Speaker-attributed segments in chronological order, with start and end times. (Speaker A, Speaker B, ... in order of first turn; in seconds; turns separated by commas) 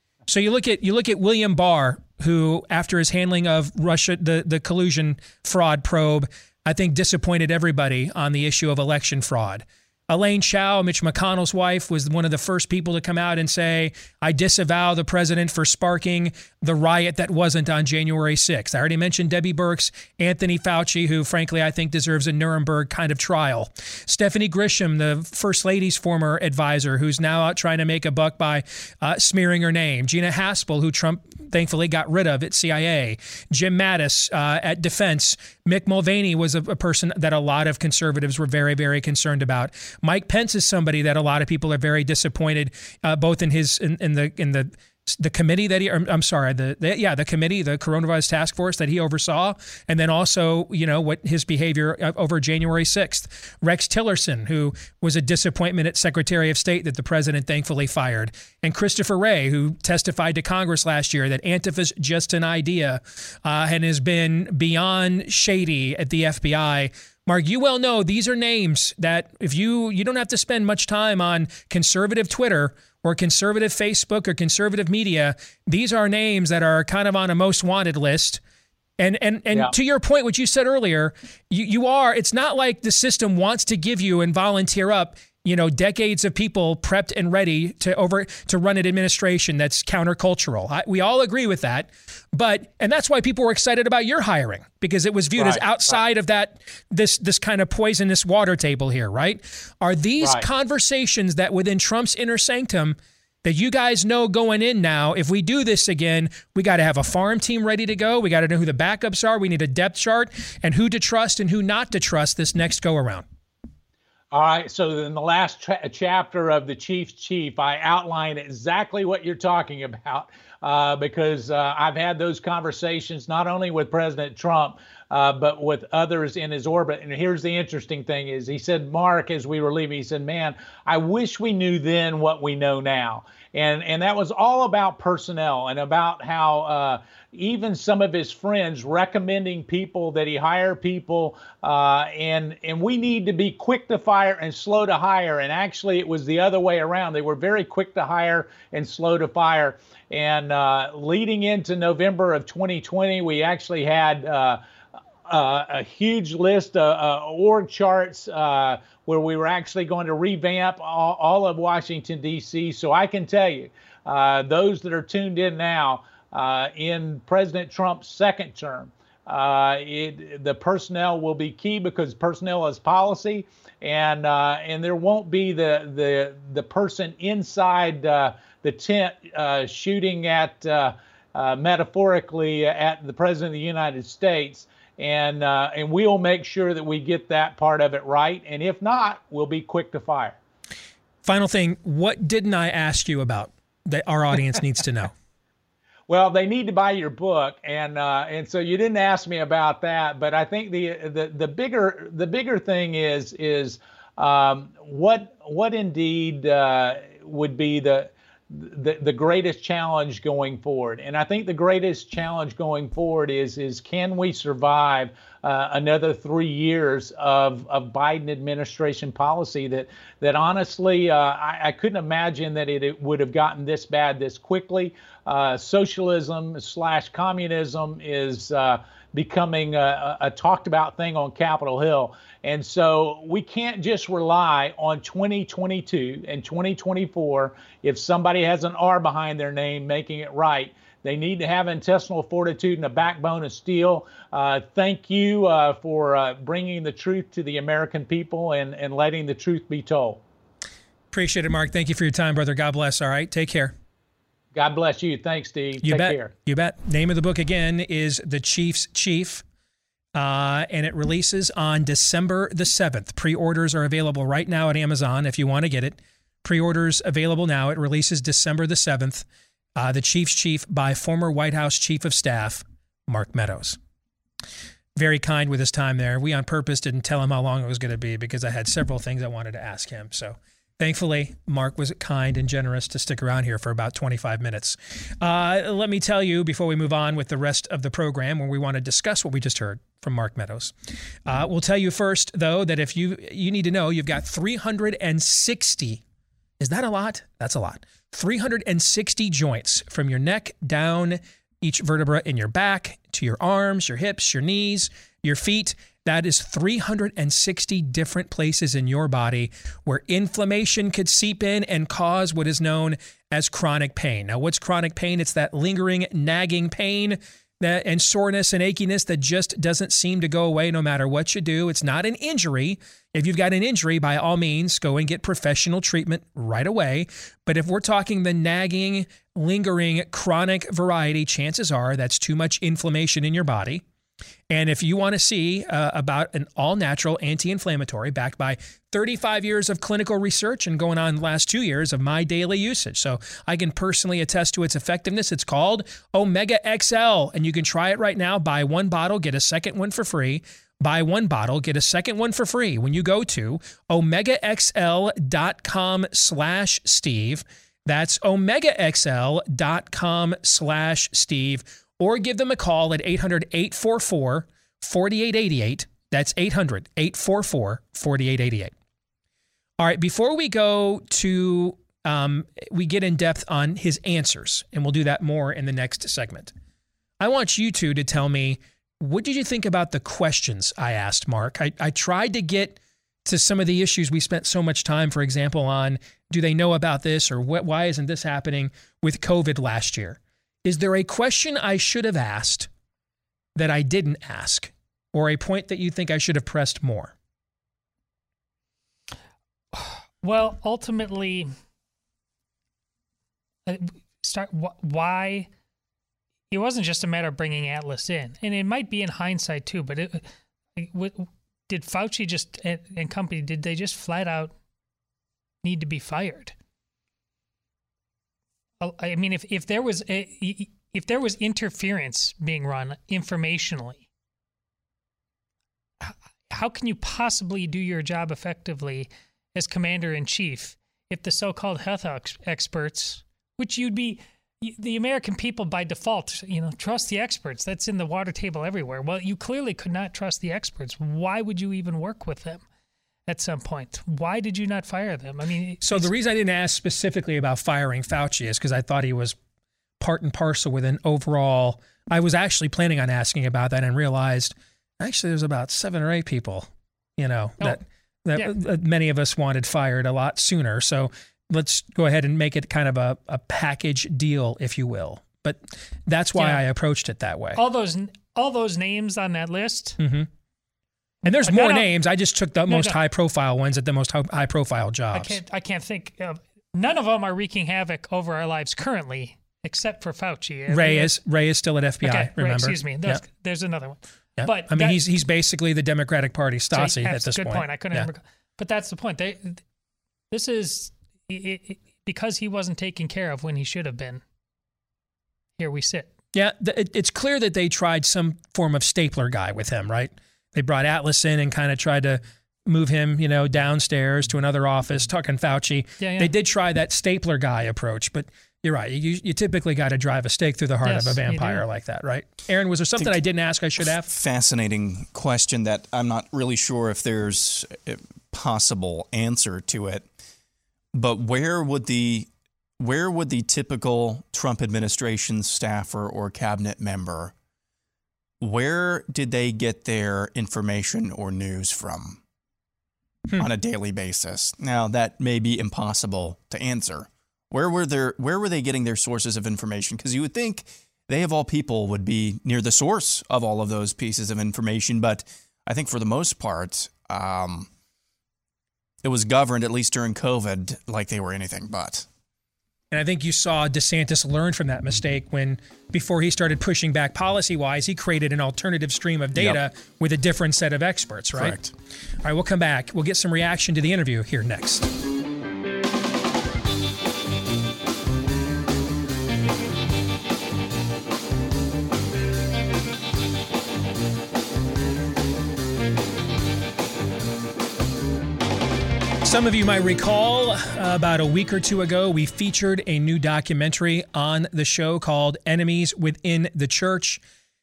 Speaker A: 0.3-78.4, Speaker A: 79.0-113.2, Speaker B: 95.3-96.0, Speaker B: 100.2-100.5, Speaker B: 114.3-154.6, Speaker B: 155.3-190.4, Speaker A: 191.2-195.1, Speaker B: 196.1-250.2, Speaker A: 251.1-253.7, Speaker B: 254.5-256.3, Speaker A: 255.8-259.4, Speaker A: 260.1-273.8, Speaker A: 274.9-290.7, Speaker A: 291.2-296.0, Speaker A: 296.6-333.8, Speaker A: 334.5-368.7, Speaker A: 369.8-376.5, Speaker A: 377.2-392.7, Speaker A: 393.6-397.1, Speaker C: 399.7-401.5, Speaker C: 403.6-405.5, Speaker C: 406.5-410.2, Speaker C: 410.8-414.5, Speaker C: 415.6-416.5, Speaker C: 418.8-424.1, Speaker C: 426.0-442.6, Speaker C: 443.3-446.1, Speaker A: 445.8-449.4, Speaker A: 450.0-467.6, Speaker C: 466.4-466.6, Speaker C: 467.6-470.0, Speaker A: 470.0-470.3, Speaker A: 471.2-475.4, Speaker C: 471.3-471.9, Speaker C: 472.7-473.0, Speaker C: 475.1-481.1, Speaker A: 480.7-483.2, Speaker C: 482.0-485.0, Speaker A: 484.4-488.1, Speaker C: 486.7-489.6, Speaker C: 490.3-494.2, Speaker C: 495.6-496.1, Speaker A: 496.3-514.1, Speaker C: 506.0-506.3, Speaker C: 510.8-511.6, Speaker D: 514.0-520.1, Speaker D: 520.9-527.3, Speaker D: 528.4-532.2, Speaker D: 533.4-547.7, Speaker D: 549.0-552.1, Speaker A: 552.9-561.6, Speaker D: 559.3-559.6, Speaker D: 561.3-561.7, Speaker A: 562.2-564.9, Speaker A: 579.2-587.2